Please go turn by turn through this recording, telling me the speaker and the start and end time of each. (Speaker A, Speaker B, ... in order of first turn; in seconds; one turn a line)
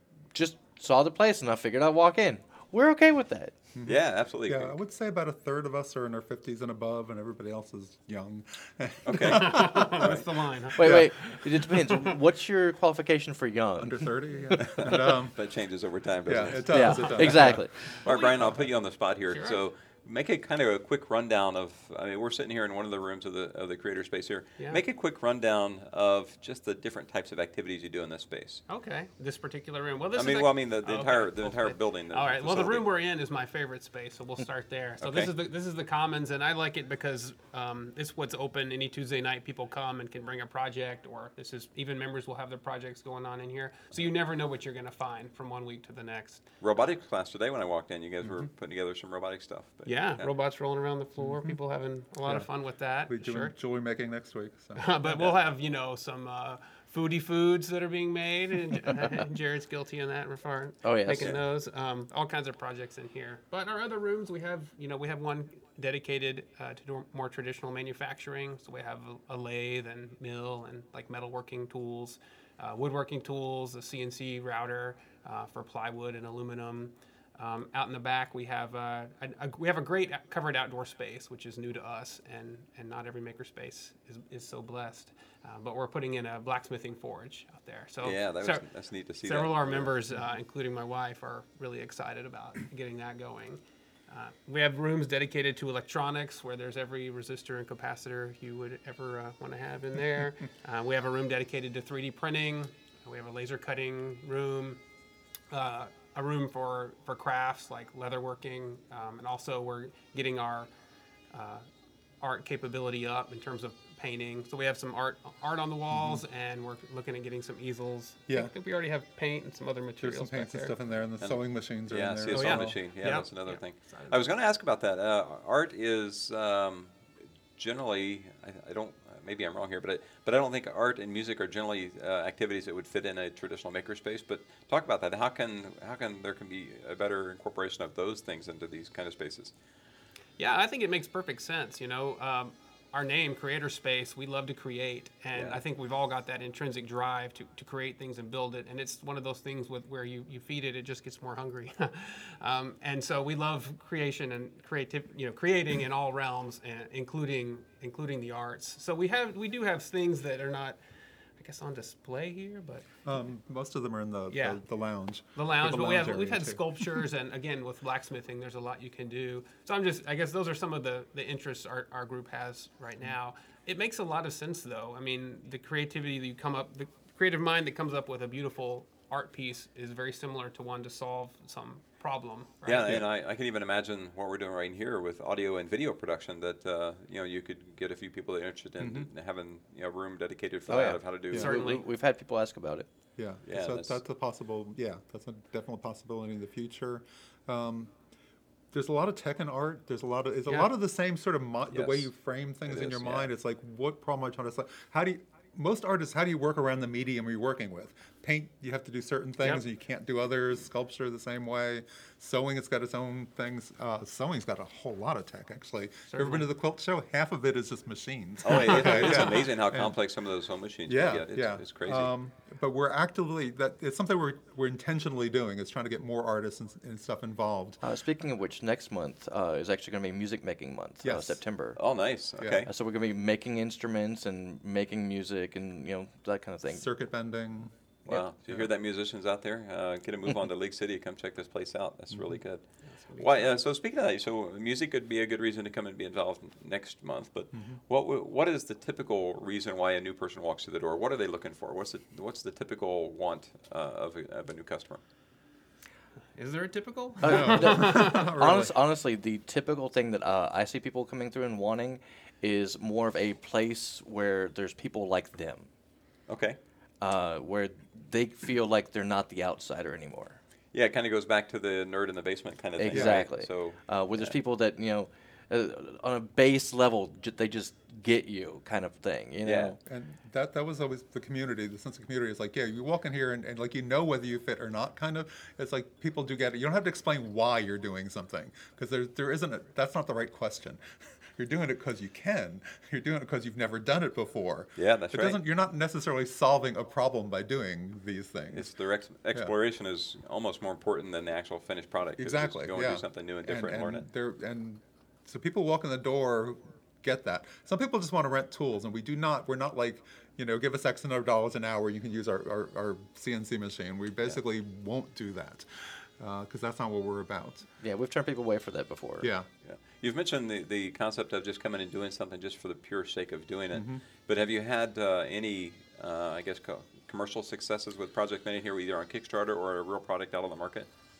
Speaker A: 0.3-3.6
Speaker B: 3.8-11.1
Speaker C: 3.9-4.8
Speaker C: 9.0-10.3
Speaker D: 9.2-12.1
Speaker A: 10.8-14.0
Speaker B: 13.8-15.4
Speaker C: 14.5-28.6
Speaker B: 16.2-18.0
Speaker A: 16.7-17.8
Speaker D: 18.0-18.7
Speaker D: 19.3-19.6
Speaker D: 28.7-46.5
Speaker C: 30.1-32.9
Speaker C: 35.0-35.3
Speaker C: 46.6-50.3
Speaker D: 49.9-53.5
Speaker B: 51.2-51.5
Speaker B: 53.0-54.9
Speaker D: 54.8-88.7
Speaker C: 55.1-55.4
Speaker A: 60.8-61.4
Speaker C: 88.0-89.9
Speaker D: 89.2-104.8
Speaker D: 105.5-110.7
Speaker D: 111.3-111.7
Speaker D: 112.2-120.8
Speaker B: 115.9-116.2
Speaker B: 118.3-118.5
Speaker B: 120.0-122.8
Speaker C: 121.2-127.0
Speaker D: 122.3-124.3
Speaker C: 127.6-139.5
Speaker D: 140.4-160.8
Speaker C: 145.3-145.6
Speaker D: 161.4-162.9
Speaker B: 163.0-167.0
Speaker D: 164.3-164.6
Speaker D: 165.3-183.0
Speaker C: 182.7-191.5
Speaker B: 188.8-189.1
Speaker A: 190.7-192.9
Speaker D: 191.3-191.8
Speaker B: 193.2-197.9
Speaker C: 193.5-194.0
Speaker B: 198.7-220.0
Speaker C: 201.7-202.1
Speaker C: 202.7-203.3
Speaker D: 216.1-216.5
Speaker C: 218.4-222.1
Speaker B: 220.9-227.8
Speaker A: 227.8-231.8
Speaker B: 231.0-231.4
Speaker C: 231.8-232.7
Speaker B: 232.4-232.7
Speaker A: 232.7-236.8
Speaker B: 236.7-237.7
Speaker C: 238.1-255.0
Speaker D: 243.1-243.4
Speaker D: 256.3-258.3
Speaker A: 257.2-265.7
Speaker B: 257.2-258.8
Speaker C: 266.3-266.6
Speaker A: 267.0-270.4
Speaker C: 270.7-274.3
Speaker A: 272.8-279.8
Speaker B: 272.9-273.2
Speaker C: 279.4-279.7
Speaker B: 279.8-290.8
Speaker B: 291.3-298.7
Speaker C: 294.8-295.4
Speaker C: 298.5-304.0
Speaker B: 302.2-317.7
Speaker A: 317.8-319.3
Speaker B: 319.2-319.5
Speaker C: 319.6-330.9
Speaker B: 323.7-324.0